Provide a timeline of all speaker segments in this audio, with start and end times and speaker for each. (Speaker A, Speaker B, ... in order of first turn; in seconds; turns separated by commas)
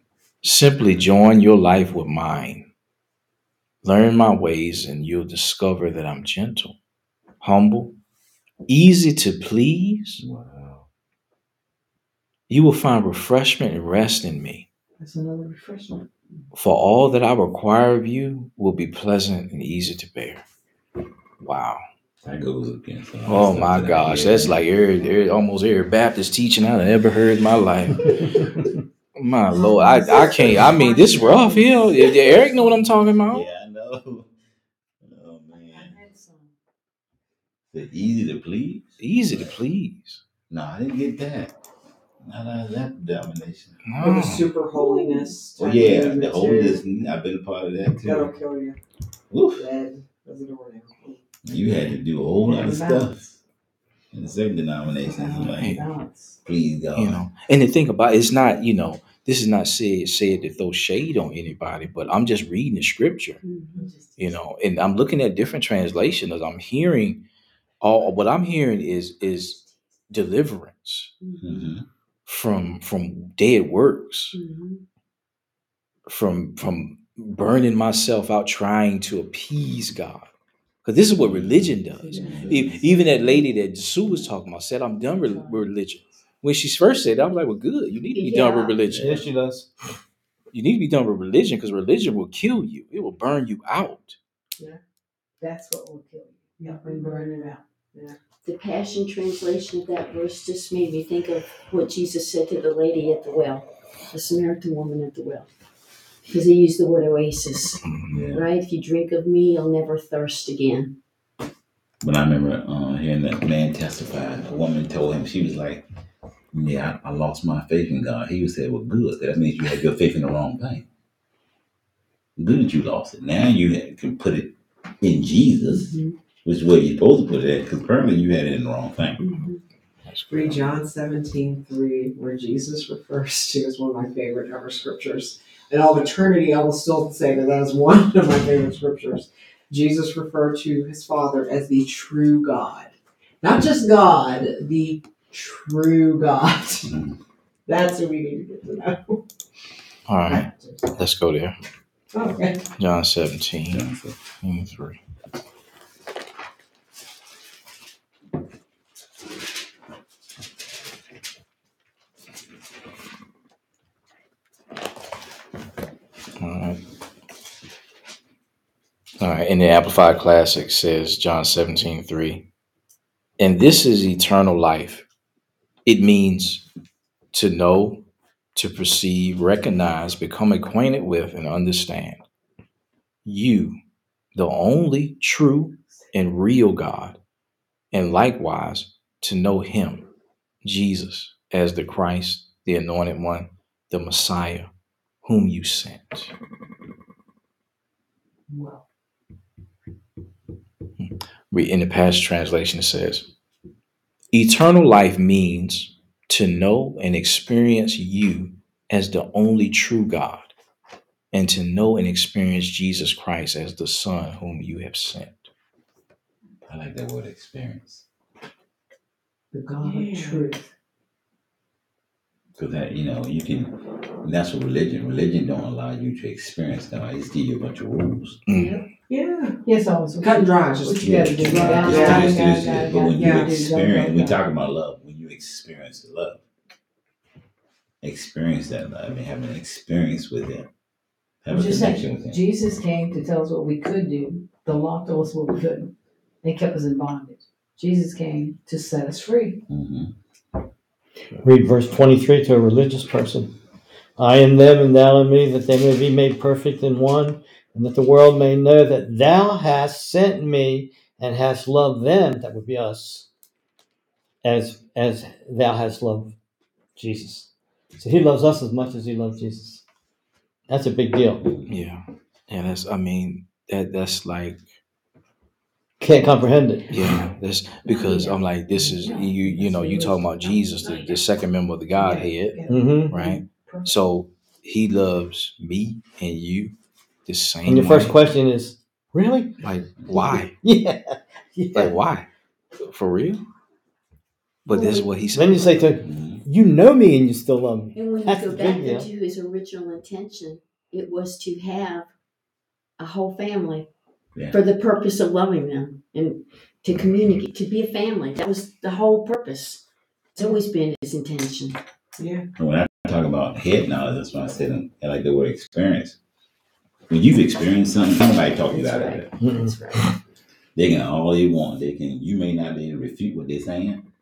Speaker A: 0.4-2.6, Speaker A: 3.8-6.8, Speaker A: 7.4-7.9, Speaker A: 8.7-10.2, Speaker B: 10.2-10.8, Speaker A: 12.5-14.7, Speaker C: 15.0-16.1, Speaker A: 16.5-20.4, Speaker A: 21.4-21.8, Speaker B: 22.2-24.6, Speaker A: 23.3-28.3, Speaker A: 29.1-33.5, Speaker C: 29.5-33.0, Speaker B: 33.3-34.3, Speaker B: 35.0-36.0, Speaker C: 35.7-36.5, Speaker B: 37.7-39.6, Speaker A: 39.0-40.2, Speaker B: 40.5-41.5, Speaker B: 42.2-43.9, Speaker A: 43.9-44.5, Speaker D: 44.0-46.8, Speaker E: 44.8-45.3, Speaker B: 45.6-48.4, Speaker D: 48.0-48.8, Speaker B: 49.3-49.7, Speaker D: 49.6-51.2, Speaker B: 51.4-53.3, Speaker C: 52.4-53.1, Speaker B: 54.1-55.9, Speaker C: 55.0-56.4, Speaker A: 55.5-55.8, Speaker B: 56.4-57.2, Speaker A: 56.9-63.4, Speaker E: 63.4-63.9, Speaker A: 64.2-67.2, Speaker A: 67.8-69.6, Speaker A: 70.1-71.1, Speaker E: 71.2-71.6, Speaker B: 71.4-71.8, Speaker A: 72.3-74.4, Speaker E: 74.3-74.8, Speaker A: 76.1-80.3, Speaker A: 80.8-89.2, Speaker B: 81.2-82.9, Speaker C: 82.0-83.5, Speaker C: 85.2-85.7, Speaker E: 88.1-88.8, Speaker B: 88.8-89.3, Speaker F: 88.9-89.7, Speaker A: 90.5-94.2, Speaker C: 95.4-97.6, Speaker E: 96.8-97.5, Speaker E: 98.4-105.5, Speaker E: 106.2-111.0, Speaker A: 107.8-108.2, Speaker B: 108.1-108.5, Speaker B: 112.0-115.8, Speaker B: 116.5-120.8, Speaker B: 122.4-129.2, Speaker E: 125.7-126.2, Speaker E: 129.2-129.6, Speaker A: 130.1-130.7, Speaker D: 130.3-146.9, Speaker B: 146.8-147.2, Speaker D: 147.7-149.2, Speaker A: 150.1-151.6, Speaker D: 150.3-150.9, Speaker D: 152.1-152.6, Speaker A: 152.8-153.9, Speaker B: 153.7-154.2, Speaker A: 154.4-155.0, Speaker A: 166.4-166.8, Speaker A: 169.2-172.5, Speaker A: 173.4-175.1, Speaker A: 175.8-176.6, Speaker A: 177.3-178.0, Speaker A: 178.6-182.2, Speaker A: 183.2-183.8, Speaker A: 184.3-187.2, Speaker A: 187.9-190.1, Speaker A: 190.6-194.7, Speaker A: 195.2-196.3, Speaker A: 201.0-203.3, Speaker A: 204.3-210.6, Speaker A: 211.3-215.5, Speaker B: 216.7-218.0, Speaker C: 219.5-220.6, Speaker D: 219.8-220.5, Speaker B: 222.6-228.4, Speaker A: 228.4-228.8, Speaker C: 228.5-228.8, Speaker D: 229.1-229.6, Speaker C: 229.6-234.4, Speaker D: 230.2-232.3, Speaker B: 231.0-236.4, Speaker D: 233.2-233.5, Speaker B: 238.0-240.7, Speaker B: 241.4-242.4, Speaker C: 241.5-249.6, Speaker B: 249.7-250.1, Speaker F: 251.4-253.5, Speaker F: 254.2-263.3, Speaker F: 264.4-266.4, Speaker F: 266.9-269.8, Speaker F: 270.7-271.4, Speaker B: 271.4-271.7, Speaker A: 271.7-274.6, Speaker F: 276.0-277.2, Speaker A: 276.9-286.7, Speaker C: 277.9-281.2, Speaker C: 282.0-283.9, Speaker F: 282.7-283.1, Speaker A: 287.3-288.2, Speaker F: 287.6-291.9, Speaker A: 289.6-290.5, Speaker A: 291.7-292.3, Speaker A: 292.8-293.4, Speaker A: 294.6-295.7, Speaker F: 295.3-299.1, Speaker B: 296.0-296.4, Speaker E: 297.9-302.1, Speaker E: 303.0-303.9, Speaker B: 304.4-304.6, Speaker E: 304.5-309.8, Speaker E: 310.4-311.8, Speaker D: 312.2-312.4, Speaker B: 312.6-316.2, Speaker B: 317.1-319.4, Speaker E: 318.7-320.1, Speaker F: 319.4-320.0, Speaker B: 320.7-324.0